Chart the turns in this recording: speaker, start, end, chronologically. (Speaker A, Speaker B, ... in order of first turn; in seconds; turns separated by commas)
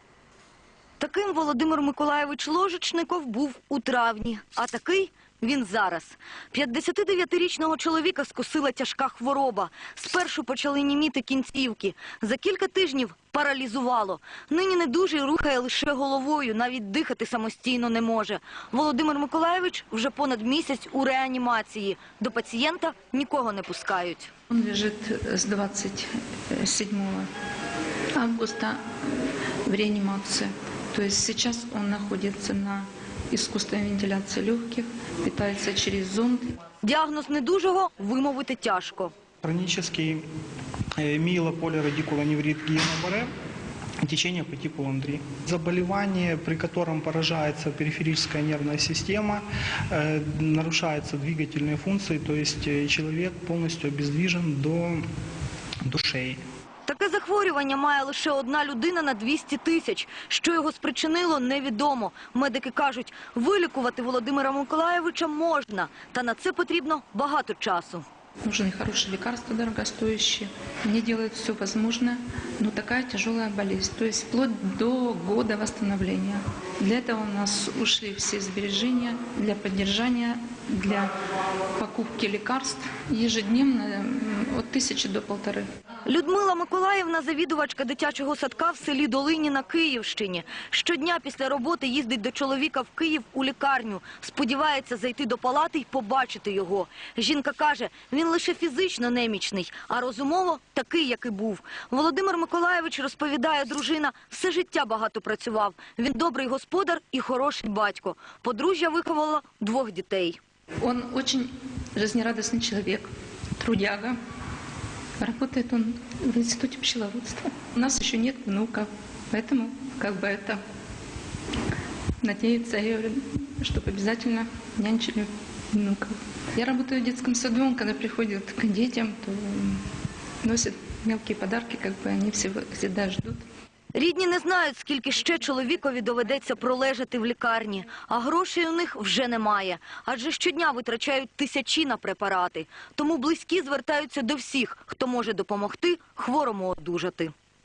Speaker A: 1.0-24.3, Speaker B: 24.5-27.3, Speaker B: 28.1-28.8, Speaker B: 29.7-36.5, Speaker A: 36.8-39.1, Speaker C: 39.4-40.2, Speaker C: 41.0-43.3, Speaker C: 44.0-55.0, Speaker C: 55.9-56.4, Speaker A: 56.9-68.1, Speaker B: 68.4-81.1, Speaker B: 81.8-85.7, Speaker A: 86.1-110.4, Speaker B: 110.8-113.1, Speaker B: 113.6-114.2, Speaker B: 115.2-120.6, Speaker B: 122.2-129.8, Speaker B: 130.4-133.4, Speaker A: 133.9-147.3